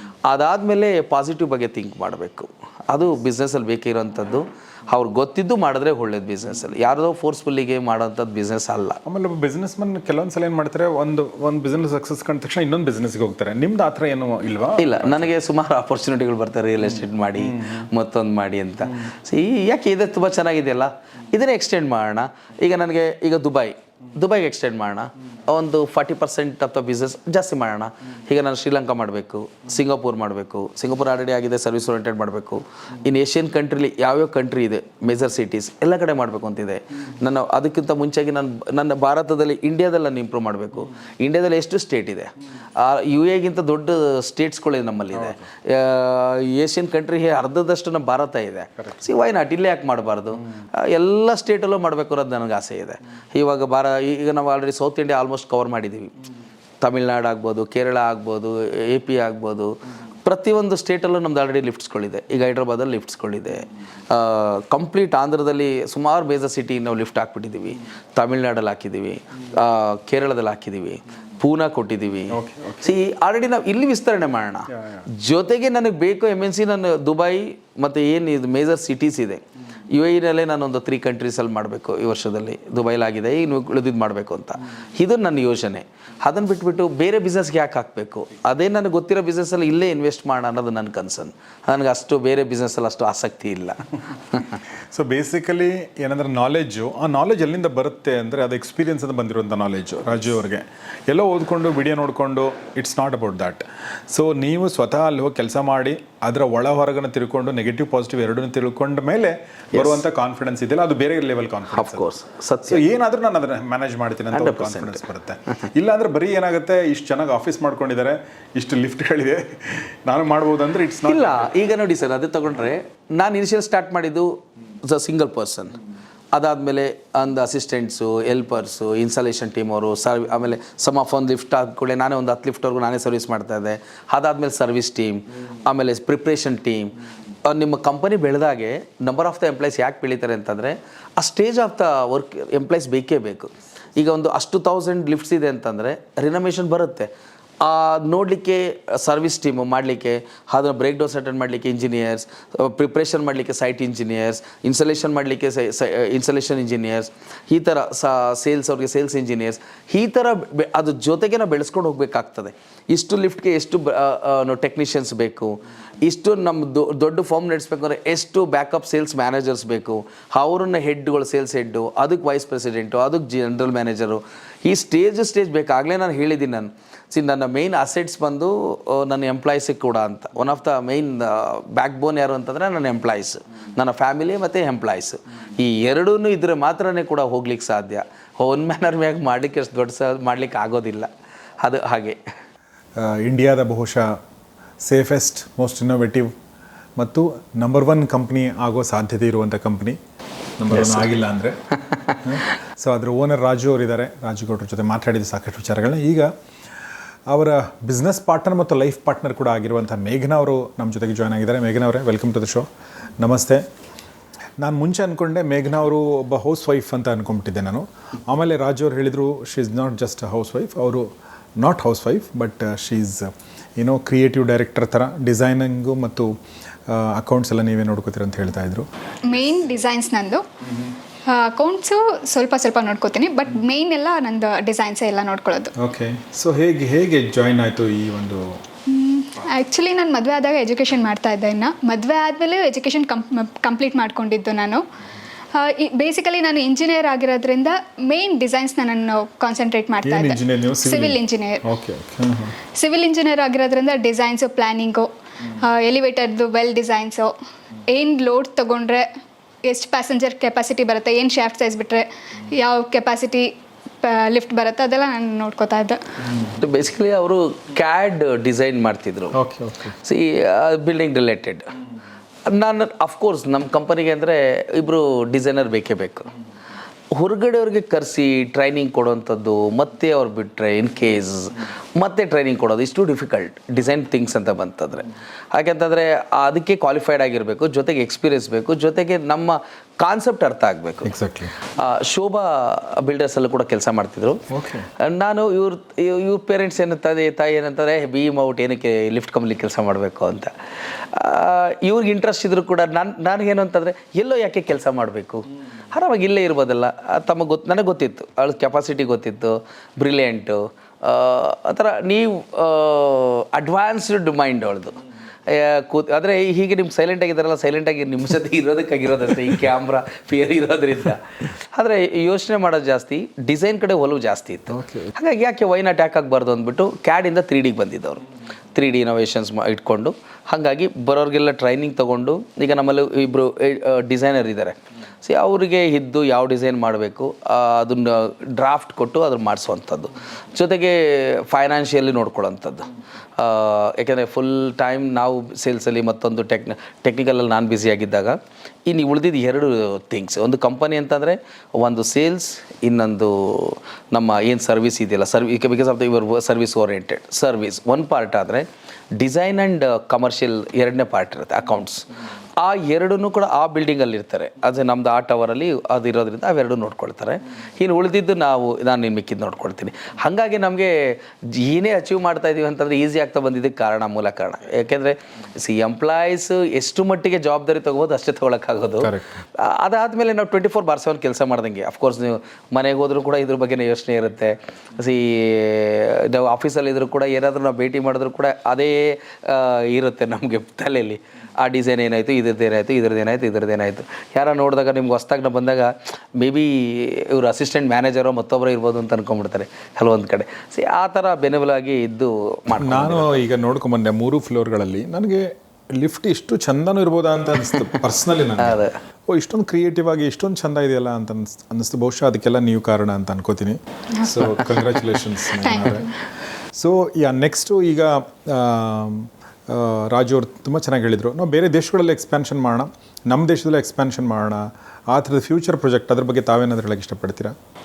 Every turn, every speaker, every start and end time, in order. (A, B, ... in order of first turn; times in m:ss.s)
0:00.3-0:09.0 A
0:09.0-0:15.3 B
0:14.8-0:56.1 A
0:17.4-0:17.7 B
0:56.8-1:34.6 A
1:12.3-1:12.9 B
1:14.8-1:15.0 B
1:34.9-1:52.0 B
1:49.7-1:50.0 A
1:51.7-1:52.8 A
1:52.7-2:01.5 B
1:54.3-1:55.0 A
2:01.1-2:05.8 A
2:06.3-2:16.9 A
2:17.4-2:27.1 A
2:27.6-3:11.1 A
3:11.6-3:12.2 A
3:13.0-3:14.2 B
3:14.8-3:16.3 B
3:17.0-3:20.0 B
3:20.6-3:21.6 B
3:22.2-3:26.3 B
3:27.3-3:32.7 B
3:33.2-3:33.6 B
3:34.6-3:46.3 B
3:46.9-3:48.9 B
3:49.3-3:50.4 C
3:51.3-3:55.7 C
3:55.8-3:58.6 B
3:58.9-4:04.8 C
4:05.5-4:11.6 C
4:10.0-4:12.6 B
4:12.8-4:17.3 C
4:17.9-4:19.1 C
4:19.6-4:26.0 C
4:26.5-4:29.4 A
4:29.3-4:30.0 B
4:30.0-4:31.6 A
4:32.5-4:36.3 A
4:37.1-4:51.1 A
4:51.0-4:51.5 B
4:51.7-4:54.4 A
4:54.5-4:54.9 B
4:55.0-5:00.5 A
5:01.1-5:28.2 A
5:24.7-5:25.1 B
5:28.7-6:02.1 A
6:02.6-6:43.4 A
6:19.0-6:19.4 B
6:42.8-6:56.1 B
6:48.6-6:49.0 A
6:54.2-6:55.0 C
6:55.6-6:56.1 C
6:56.8-7:07.6 B